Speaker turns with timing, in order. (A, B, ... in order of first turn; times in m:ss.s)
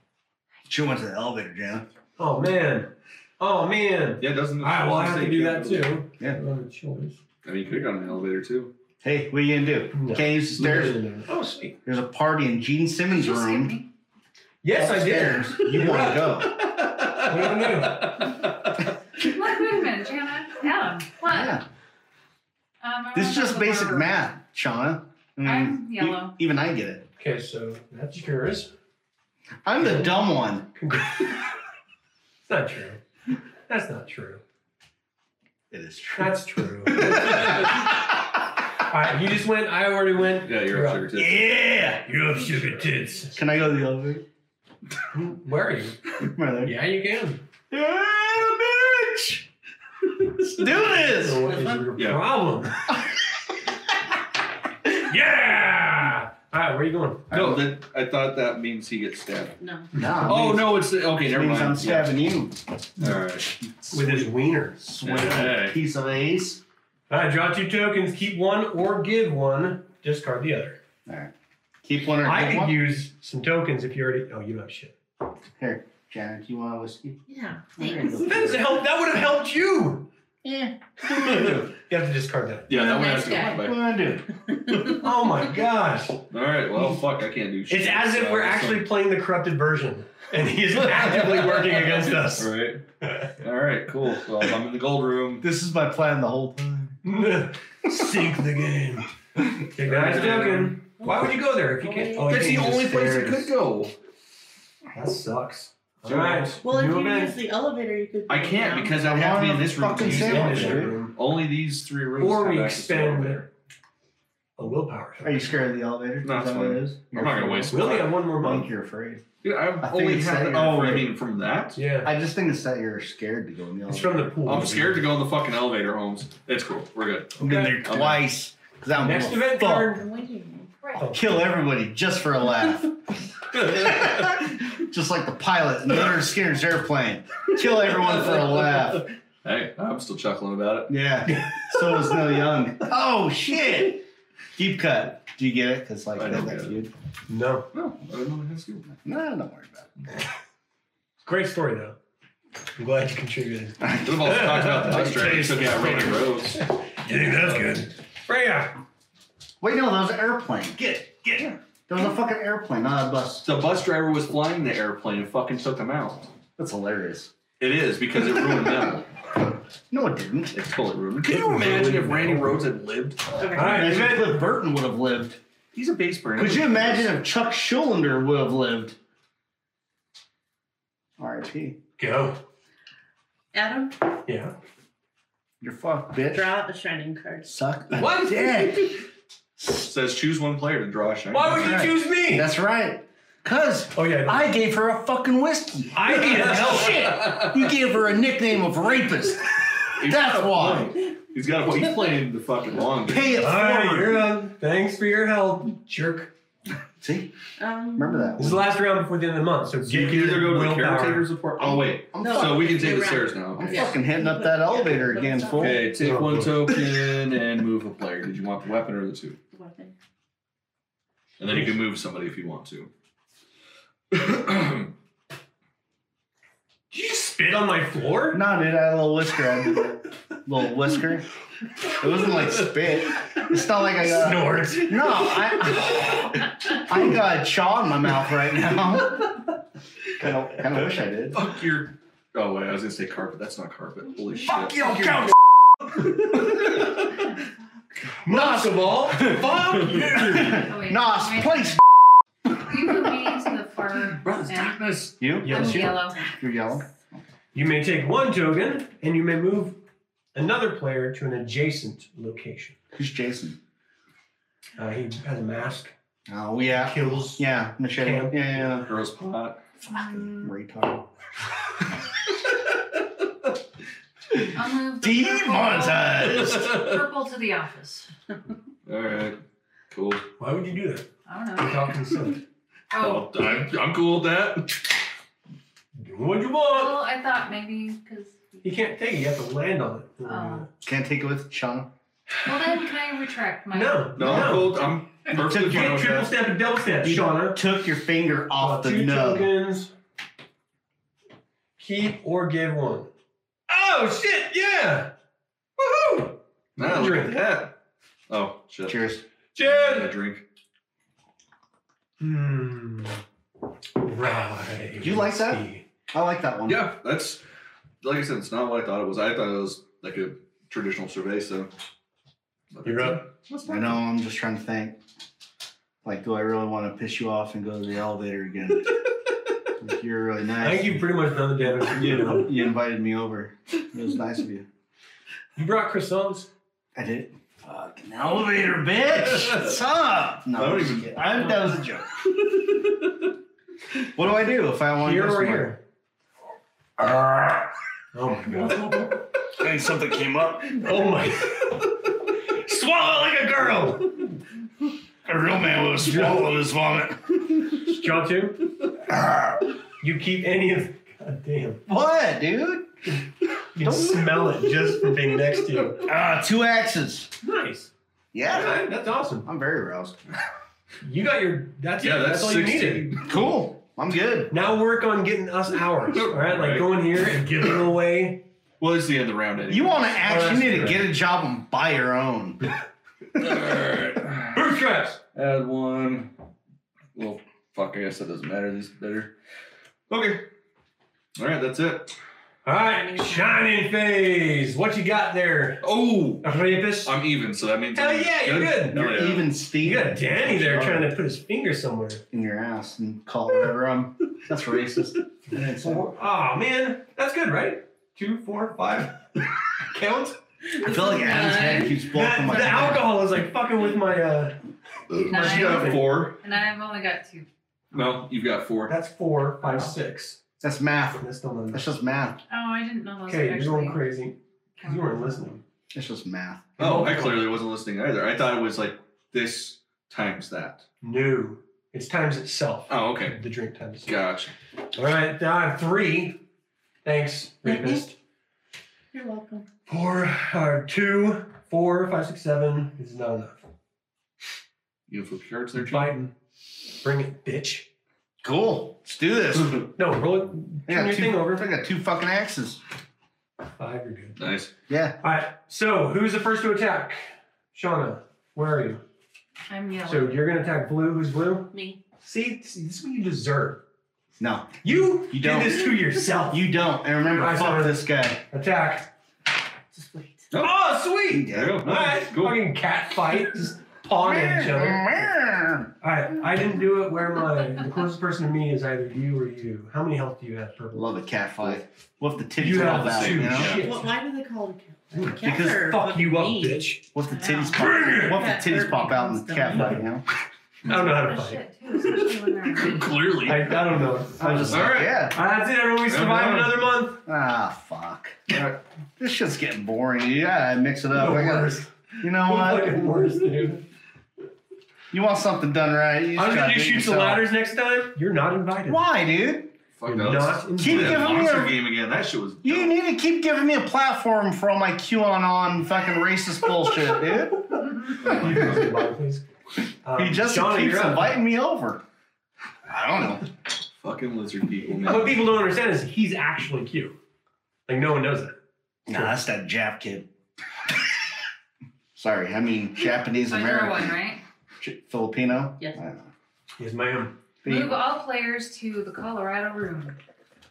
0:00.6-0:01.9 A
0:02.2-0:07.2 B
0:04.2-0:06.0 C
0:07.4-0:08.7 C
0:09.0-0:11.0 A
0:09.9-0:11.8 B
0:11.8-0:13.8 A
0:13.1-0:13.8 D
0:14.6-0:16.5 B
0:14.7-0:16.5 A
0:15.8-0:18.7 C
0:17.2-0:18.2 B
0:19.2-0:21.6 D
0:21.3-0:21.6 A
0:22.8-0:24.1 D
0:23.1-0:27.0 A
0:25.4-0:26.3 D
0:27.2-0:28.7 B
0:29.6-0:30.6 A
0:29.8-0:30.2 B
0:30.7-0:31.3 B
0:32.4-0:33.0 B
0:33.7-0:34.4 B
0:35.7-0:38.1 A
0:36.2-0:37.7 B
0:38.8-0:41.2 B
0:40.3-0:41.6 C
0:41.2-0:42.0 A
0:41.7-0:43.4 B
0:43.3-0:44.2 A
0:45.1-0:46.0 B
0:46.2-0:46.7 A
0:46.6-0:47.4 B
0:47.7-0:49.4 A
0:50.4-0:51.5 A
0:50.6-0:52.9 B
0:51.4-0:51.8 E
0:52.0-0:52.2 C
0:55.0-0:57.3 B
0:57.3-0:57.7 A
0:57.3-0:59.6 C
0:59.6-0:59.9 E
0:59.9-1:02.6 A
1:00.0-1:00.6 B
1:00.2-1:02.1 C
1:03.0-1:03.5 C
1:03.6-1:06.6 A
1:03.9-1:04.8 B
1:05.0-1:05.8 C
1:07.1-1:10.8 B
1:11.0-1:11.3 A
1:11.8-1:12.8 A
1:12.2-1:14.9 B
1:15.6-1:17.2 A
1:17.3-1:18.2 E
1:17.8-1:18.8 A
1:18.2-1:20.1 B
1:20.4-1:20.7 E
1:21.0-1:22.7 B
1:21.2-1:21.6 A
1:22.7-1:23.8 C
1:22.7-1:23.7 E
1:23.4-1:24.3 A
1:24.6-1:24.9 E
1:24.9-1:26.2 B
1:26.3-1:28.9 C
1:27.7-1:32.5 B
1:30.8-1:32.8 C
1:33.4-1:35.4 C
1:35.4-1:37.0 A
1:37.0-1:39.1 B
1:39.7-1:43.5 B
1:39.8-1:40.8 C
1:41.0-1:42.6 E
1:42.2-1:43.9 C
1:44.9-1:47.4 B
1:46.0-1:46.6 C
1:46.6-1:49.0 E
1:48.3-1:53.5 C
1:48.9-1:51.0 A
1:50.0-1:51.2 B
1:52.2-1:53.4 B
1:54.6-1:55.5 B
1:55.2-1:59.2 A
1:56.2-1:58.1 C
1:57.7-1:58.7 B
1:59.4-2:01.8 C
1:59.8-2:01.1 A
2:01.7-2:02.1 B
2:02.0-2:04.3 A
2:03.9-2:05.1 B
2:04.4-2:08.2 C
2:07.4-2:07.8 B
2:07.4-2:09.9 A
2:08.9-2:10.0 B
2:09.9-2:10.7 E
2:10.9-2:11.3 B
2:11.1-2:13.0 A
2:13.5-2:19.0 A
2:13.5-2:14.4 C
2:17.8-2:20.9 C
2:20.9-2:24.0 A
2:24.6-2:26.9 A
2:26.2-2:26.8 C
2:27.3-2:27.7 B
2:27.7-2:29.0 C
2:29.0-2:29.9 A
2:31.2-2:32.0 B
2:32.8-2:38.8 B
2:33.8-2:34.3 A
2:34.0-2:36.6 C
2:37.2-2:37.7 C
2:39.6-2:43.5 A
2:43.4-2:46.3 C
2:46.6-2:47.3 A
2:47.6-2:49.1 C
2:49.9-2:50.5 A
2:50.5-2:53.3 C
2:51.2-2:52.6 B
2:53.4-2:53.9 E
2:53.5-2:54.5 B
2:53.6-2:55.4 A
2:55.7-2:57.1 C
2:56.4-2:59.0 A
3:01.2-3:01.8 A
3:02.0-3:02.4 B
3:03.5-3:04.0 E
3:04.3-3:04.5 B
3:05.6-3:06.5 A
3:06.3-3:07.5 E
3:07.4-3:09.0 A
3:07.9-3:08.9 B
3:09.7-3:11.8 C
3:11.3-3:12.5 B
3:11.5-3:21.0 A
3:13.9-3:14.5 B
3:15.9-3:17.1 B
3:16.9-3:17.6 C
3:19.9-3:23.4 C
3:23.1-3:24.2 A
3:23.4-3:26.3 B
3:27.0-3:27.3 A
3:27.6-3:28.4 E
3:28.0-3:28.7 A
3:28.4-3:31.3 B
3:29.8-3:33.9 C
3:31.6-3:35.9 A
3:32.2-3:35.8 E
3:35.6-3:39.4 C
3:35.9-3:36.7 B
3:39.5-3:39.9 E
3:41.4-3:42.9 C
3:41.4-3:41.7 B
3:44.1-3:44.9 C
3:46.9-3:48.4 B
3:48.3-3:51.2 A
3:52.0-3:59.4 A
3:54.0-3:55.2 B
4:00.2-4:01.4 A
4:01.3-4:05.1 C
4:04.5-4:05.3 A
4:08.2-4:10.6 B
4:08.2-4:09.4 A
4:10.2-4:11.8 A
4:10.4-4:11.8 D
4:12.5-4:16.2 D
4:14.2-4:15.1 C
4:15.2-4:17.2 A
4:15.4-4:16.0 B
4:17.5-4:19.8 B
4:20.3-4:22.8 B
4:22.9-4:23.6 A
4:24.8-4:25.9 B
4:26.3-4:28.9 A
4:26.7-4:28.7 B
4:28.7-4:29.6 C
4:29.9-4:31.0 A
4:29.9-4:30.5 D
4:34.5-4:38.1 D
4:35.0-4:36.7 A
4:36.2-4:37.0 C
4:38.8-4:39.4 C
4:39.9-4:40.2 C
4:40.4-4:42.4 B
4:41.2-4:41.9 D
4:42.9-4:43.7 D
4:42.9-4:44.8 C
4:46.0-4:47.0 B
4:46.7-4:48.5 D
4:48.6-4:50.7 B
4:50.2-4:50.7 D
4:50.8-4:51.9 A
4:52.4-4:54.4 D
4:52.4-4:52.7 B
4:53.7-4:54.8 B
4:54.2-4:56.3 C
4:55.3-4:56.3 A
4:55.4-4:57.6 B
4:57.0-4:59.5 A
4:58.6-4:59.9 B
5:01.8-5:03.1 B
5:03.7-5:05.1 B
5:05.8-5:07.4 B
5:06.8-5:07.7 C
5:08.3-5:09.0 C
5:08.8-5:09.2 A
5:09.5-5:10.1 B
5:09.6-5:10.4 C
5:12.2-5:13.2 B
5:14.0-5:15.8 B
5:15.0-5:16.9 A
5:16.6-5:17.4 C
5:18.0-5:21.7 C
5:22.7-5:24.0 C
5:22.8-5:23.3 B
5:23.6-5:25.0 A
5:26.0-5:28.9 A
5:29.8-5:31.1 A
5:30.6-5:32.5 B
5:31.8-5:34.6 A
5:35.6-5:36.5 B
5:36.9-5:42.1 A
5:40.5-5:41.3 C
5:42.5-5:43.1 C
5:44.0-5:45.7 A
5:45.0-5:45.8 B
5:47.0-5:47.7 A
5:48.1-5:49.2 B
5:49.5-5:50.9 A
5:50.7-5:51.8 B
5:52.5-5:54.2 B
5:55.2-5:57.8 A
5:56.0-5:56.4 B
5:57.8-5:58.6 B
5:59.1-5:59.6 A
6:00.0-6:01.8 B
6:01.9-6:02.9 A
6:03.7-6:06.0 B
6:03.8-6:04.5 A
6:06.0-6:07.3 A
6:07.4-6:07.9 B
6:08.3-6:08.9 A
6:08.4-6:09.5 B
6:09.4-6:10.2 A
6:11.0-6:13.2 B
6:12.0-6:13.4 C
6:13.2-6:14.5 A
6:14.5-6:18.4 B
6:16.1-6:16.9 C
6:18.8-6:20.7 C
6:19.7-6:22.6 A
6:20.2-6:21.0 B
6:23.4-6:24.8 C
6:24.5-6:25.2 B
6:25.3-6:26.3 C
6:27.1-6:29.3 C
6:30.1-6:30.5 C
6:31.4-6:32.1 C
6:32.6-6:35.8 B
6:32.7-6:33.7 E
6:35.8-6:36.5 C
6:36.4-6:37.1 B
6:37.0-6:39.5 C
6:37.9-6:39.1 B
6:38.9-6:41.1 A
6:39.8-6:42.2 B
6:42.3-6:46.1 A
6:45.5-6:49.2 B
6:49.8-6:50.4 B
6:50.6-6:52.0 E
6:50.8-6:53.2 A
6:52.0-6:54.6 B
6:55.1-6:56.4 C
6:55.2-6:56.1 B
6:55.2-6:57.5 D
6:57.9-6:59.0 C
6:58.9-7:00.4 B
7:00.6-7:02.4 A
7:01.2-7:01.9 B
7:02.5-7:04.1 D
7:03.2-7:05.6 B
7:04.8-7:05.4 D
7:05.9-7:06.7 A
7:06.8-7:07.5 B
7:06.8-7:10.8 C
7:11.0-7:14.1 B
7:12.9-7:13.4 C
7:14.0-7:14.5 C
7:14.9-7:16.4 B
7:17.0-7:18.1 B
7:17.6-7:18.0 E
7:19.1-7:19.7 E
7:19.9-7:23.7 B
7:25.1-7:26.1 C
7:25.8-7:26.3 B
7:27.0-7:27.9 B
7:28.4-7:29.9 A
7:30.0-7:31.6 B
7:30.9-7:32.8 A
7:33.8-7:34.4 B
7:34.4-7:34.7 C
7:34.9-7:35.2 A
7:35.2-7:39.0 B
7:39.7-7:40.4 D
7:40.0-7:43.8 B
7:41.7-7:42.0 E
7:44.4-7:48.4 A
7:44.8-7:46.7 B
7:47.3-7:49.1 B
7:49.9-7:50.5 E
7:50.5-7:50.8 C
7:50.5-7:55.3 B
7:51.3-7:51.8 A
7:51.4-7:52.6 C
7:54.2-7:55.9 A
7:56.0-8:01.8 B
8:00.9-8:03.8 A
8:02.6-8:04.1 B
8:02.7-8:03.9 C
8:03.7-8:06.9 E
8:05.1-8:07.0 B
8:05.4-8:05.7 A
8:07.1-8:10.2 A
8:07.3-8:08.0 D
8:07.7-8:08.5 B
8:08.1-8:10.0 E
8:09.7-8:10.0 B
8:10.8-8:11.6 B
8:10.9-8:13.2 D
8:12.0-8:13.9 C
8:13.4-8:17.2 B
8:14.4-8:15.4 A
8:14.6-8:15.1 C
8:16.0-8:16.9 C
8:17.2-8:18.6 A
8:18.5-8:18.8 C
8:19.2-8:23.0 A
8:21.1-8:23.8 B
8:25.1-8:27.5 A
8:26.3-8:29.0 B
8:28.8-8:29.7 A
8:30.0-8:32.9 C
8:30.0-8:31.6 B
8:30.8-8:31.8 A
8:32.6-8:37.7 A
8:38.2-8:38.9 C
8:38.2-8:39.4 B
8:40.0-8:41.4 B
8:40.1-8:42.0 A
8:42.9-8:43.4 A
8:44.0-8:45.5 C
8:45.0-8:47.2 B
8:47.9-8:48.6 B
8:49.1-8:50.3 A
8:49.1-8:49.3 B
8:52.2-8:54.2 A
8:53.4-8:54.4 D
8:54.8-8:56.3 A
8:56.8-8:57.4 B
8:57.6-8:58.0 A
8:57.6-9:00.2 D